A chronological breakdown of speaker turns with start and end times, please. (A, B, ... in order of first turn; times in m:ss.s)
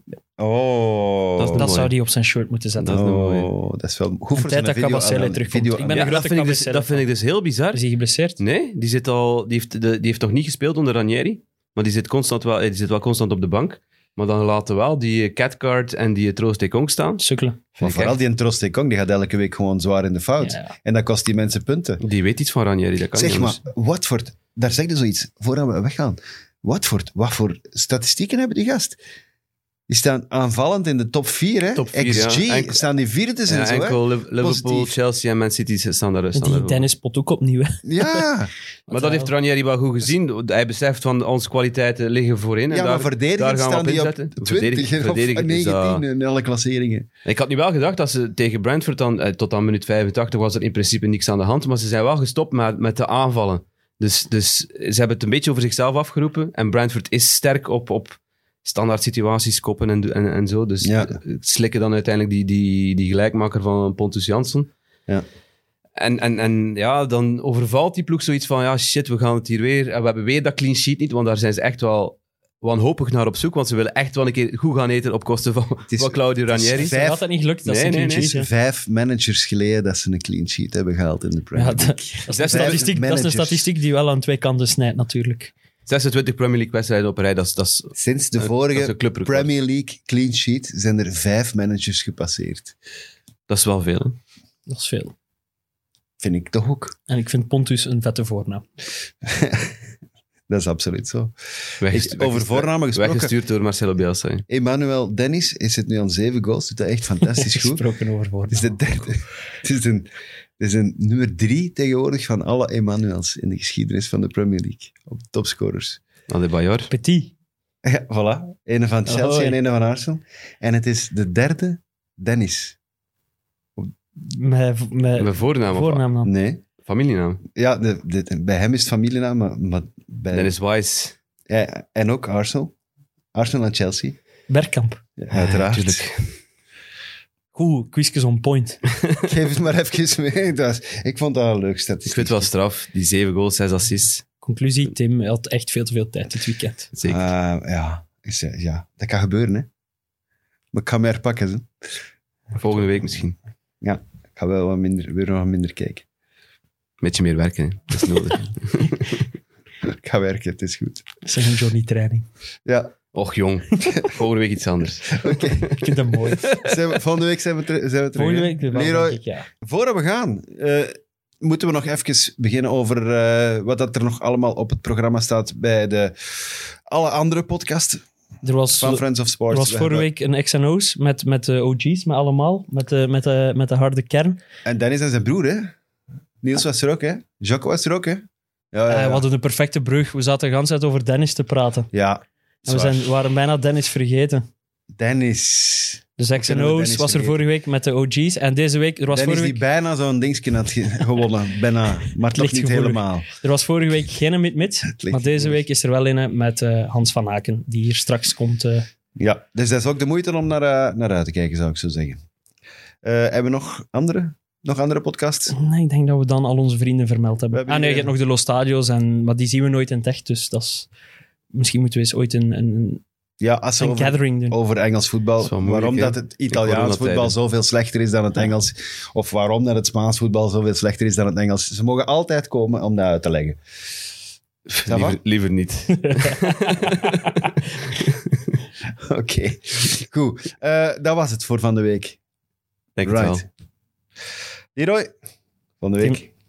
0:00.4-0:01.7 A
0:01.4-0:01.9 B
0:01.5-0:03.0 C
0:02.8-0:03.5 B
0:02.8-0:06.1 A
0:04.3-0:07.0 C
0:05.9-0:07.8 B
0:07.7-0:08.4 C
0:08.4-0:17.2 B
0:17.2-0:17.6 C
0:17.8-0:18.2 B
0:17.8-0:22.0 A
0:20.4-0:20.7 C
0:22.0-0:23.6 B
0:23.1-0:29.0 A
0:29.9-0:34.9 A
0:31.7-0:32.8 B
0:33.5-0:36.8 B
0:36.3-0:38.3 C
0:37.8-0:38.5 A
0:38.9-0:39.3 C
0:38.9-0:46.0 B
0:42.7-0:47.1 A
0:47.2-1:04.7 B
1:00.8-1:01.2 A
1:06.0-1:16.9 B
1:15.9-1:17.2 A
1:16.8-1:18.5 C
1:17.6-1:18.3 B
1:18.1-1:23.7 A
1:21.5-1:25.5 C
1:22.3-1:22.9 B
1:25.8-1:29.5 B
1:28.0-1:32.7 A
1:33.5-1:34.2 B
1:34.7-1:35.1 C
1:36.2-1:36.9 A
1:37.1-1:38.6 C
1:39.2-1:39.7 A
1:40.5-1:43.3 A
1:41.8-1:44.4 B
1:44.5-1:47.8 A
1:47.2-1:48.7 C
1:48.5-1:50.1 A
1:50.6-1:56.0 A
1:56.3-1:56.9 B
1:56.9-1:57.3 C
1:57.8-2:02.8 A
1:59.0-1:59.6 C
2:04.2-2:06.3 C
2:05.2-2:06.0 B
2:06.2-2:06.6 A
2:06.8-2:07.4 B
2:07.5-2:10.6 A
2:10.3-2:11.2 B
2:11.5-2:12.7 A
2:13.3-2:14.2 A
2:14.5-2:15.0 C
2:15.2-2:16.0 A
2:15.3-2:16.3 B
2:17.5-2:18.8 C
2:19.2-2:22.5 A
2:22.0-2:24.2 B
2:24.4-2:26.9 C
2:26.9-2:27.3 B
2:27.1-2:29.7 A
2:30.7-2:31.7 A
2:32.5-2:33.4 B
2:33.8-2:36.0 A
2:37.0-2:39.2 B
2:39.8-2:41.0 A
2:41.2-2:42.3 C
2:42.6-2:42.9 A
2:43.1-2:46.8 B
2:45.1-2:45.8 A
2:45.7-2:46.6 C
2:46.6-2:58.0 A
2:48.2-2:49.4 C
2:58.4-3:04.4 C
2:58.8-3:00.1 A
3:04.6-3:05.7 A
3:06.4-3:09.2 A
3:08.9-3:11.9 C
3:11.9-3:13.1 A
3:12.7-3:14.4 C
3:14.9-3:17.4 A
3:16.2-3:19.6 C
3:19.1-3:23.3 A
3:22.3-3:28.9 C
3:24.9-3:25.6 A
3:29.2-3:32.2 A
3:33.0-3:35.5 A
3:35.5-3:40.9 C
3:37.5-3:38.1 A
3:41.5-3:43.0 C
3:43.4-3:53.6 A
3:43.8-3:44.6 C
3:45.4-3:47.3 B
3:54.7-3:57.3 B
3:54.8-3:55.2 A
3:56.0-3:56.8 C
3:59.0-4:02.2 A
4:03.0-4:03.4 B
4:03.0-4:03.4 A
4:04.7-4:05.1 A
4:05.8-4:06.3 A